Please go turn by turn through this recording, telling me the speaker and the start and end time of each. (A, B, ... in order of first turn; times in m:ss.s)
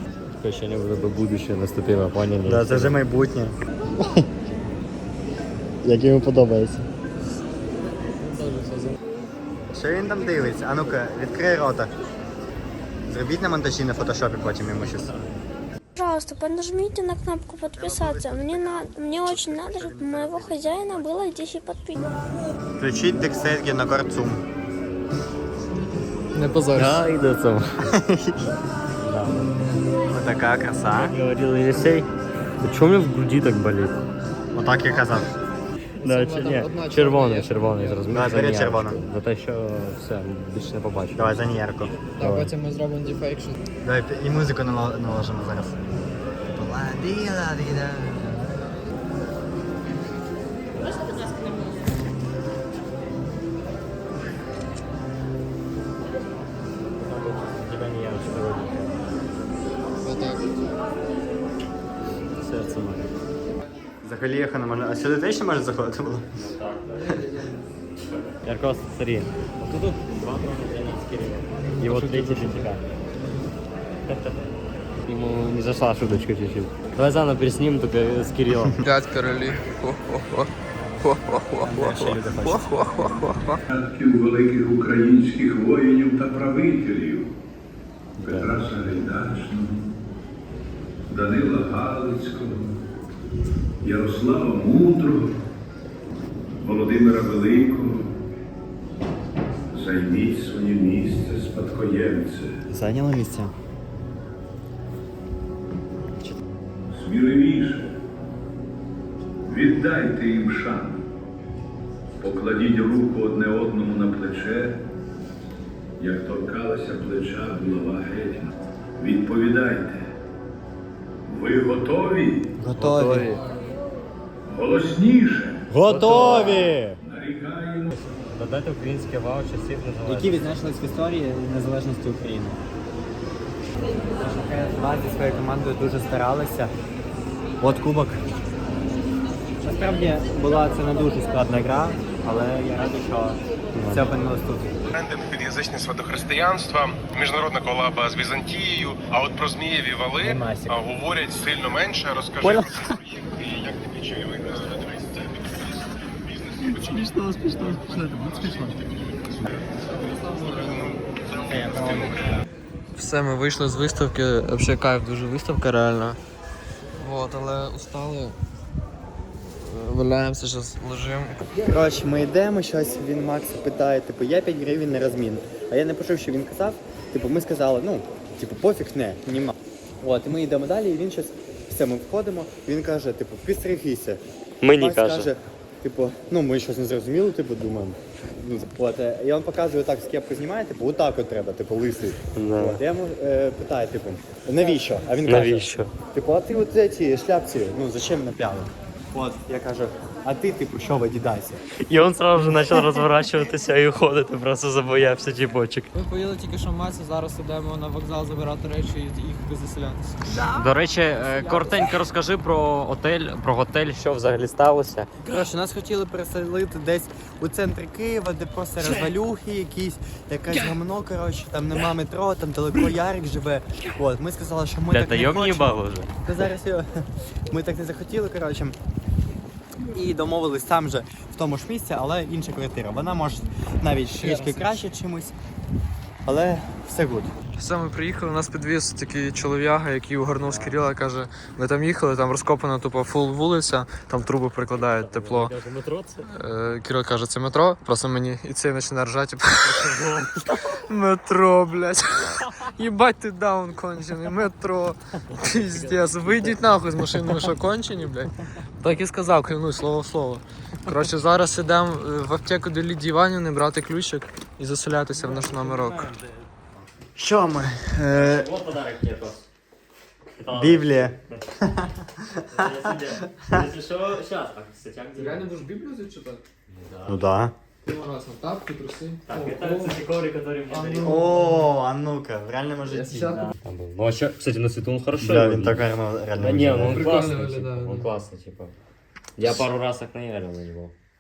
0:00.3-0:03.0 A
0:02.4-0:04.3 B
0:05.8-0:06.9 B
0:08.2-0:09.0 C
0:09.7-0:11.9 B
0:13.1-0:15.1 B
0:16.0-0:22.1 D
0:17.7-0:21.1 B
0:22.8-0:24.4 B
0:26.3-0:27.0 C
0:26.8-0:27.7 A
0:27.9-0:28.4 B
0:29.0-0:29.6 A
0:30.1-0:31.2 B
0:31.0-0:32.1 A
0:32.6-0:34.0 A
0:34.6-0:35.3 B
0:34.9-0:35.3 C
0:36.0-0:38.1 C
0:36.0-0:41.6 A
0:38.1-0:39.0 B
0:41.2-0:41.9 B
0:42.2-0:43.6 C
0:42.2-0:42.5 A
0:43.8-0:45.8 B
0:46.5-0:48.5 B
0:57.0-0:59.0 A
1:00.0-1:00.6 C
1:02.4-1:03.1 A
1:04.0-1:06.4 B
1:06.3-1:07.2 A
1:07.0-1:07.6 C
1:08.1-1:12.8 A
1:11.8-1:13.4 C
1:14.1-1:14.4 A
1:15.0-1:18.8 A
1:18.8-1:20.5 C
1:21.0-1:23.6 C
1:21.6-1:23.1 B
1:23.7-1:27.3 E
1:28.2-1:29.9 E
1:28.2-1:28.5 A
1:31.1-1:32.8 E
1:33.8-1:35.4 E
1:36.6-1:38.1 E
1:39.7-1:42.6 E
1:42.7-1:43.6 B
1:46.0-1:46.4 B
1:46.9-1:47.9 E
1:49.4-1:51.1 E
1:52.2-1:54.8 E
1:56.0-2:00.0 E
2:01.3-2:02.4 E
2:02.6-2:03.3 B
2:02.8-2:03.4 A
2:04.5-2:05.6 E
2:05.7-2:07.0 B
2:05.8-2:06.7 A
2:07.0-2:07.9 E
2:07.9-2:10.6 A
2:10.0-2:12.6 B
2:14.2-2:16.7 B
2:17.6-2:18.2 B
2:19.6-2:24.8 B
2:23.8-2:24.1 A
2:24.9-2:35.7 F
2:30.2-2:30.8 B
2:32.4-2:33.0 B
2:36.3-2:38.8 F
2:36.6-2:38.8 C
2:39.4-2:42.3 F
2:39.8-2:41.0 C
2:40.6-2:42.4 B
2:43.0-2:46.2 C
2:47.0-2:48.4 C
2:49.6-2:51.5 C
2:51.7-3:04.2 B
3:04.6-3:05.3 A
3:04.8-3:21.6 B
3:12.4-3:12.8 A
3:15.3-3:15.9 A
3:21.9-3:25.9 A
3:25.9-3:30.6 C
3:30.4-3:35.1 A
3:31.2-3:32.0 C
3:35.2-3:48.8 B
3:44.9-3:46.1 A
3:49.9-3:55.4 B
3:54.2-3:54.8 C
3:56.2-3:57.3 B
3:57.6-4:05.5 C
4:00.5-4:00.7 B
4:04.8-4:06.3 A
4:06.3-4:26.1 C
4:09.6-4:10.8 A
4:12.2-4:12.6 A
4:15.3-4:16.6 A
4:25.1-4:26.5 A
4:27.2-4:28.5 B
4:28.1-4:29.5 A
4:30.4-4:31.4 A
4:30.5-4:33.6 B
4:32.5-4:35.5 A
4:35.2-4:36.4 C
4:36.7-4:37.3 A
4:37.1-4:37.5 B
4:37.8-4:40.0 C
4:39.3-4:41.3 A
4:40.7-4:41.7 C
4:41.0-4:43.5 B
4:42.9-4:43.5 C
4:43.6-4:45.8 A
4:45.2-4:47.2 B
4:46.4-4:48.7 A
4:46.8-4:48.1 C
4:49.4-4:50.9 A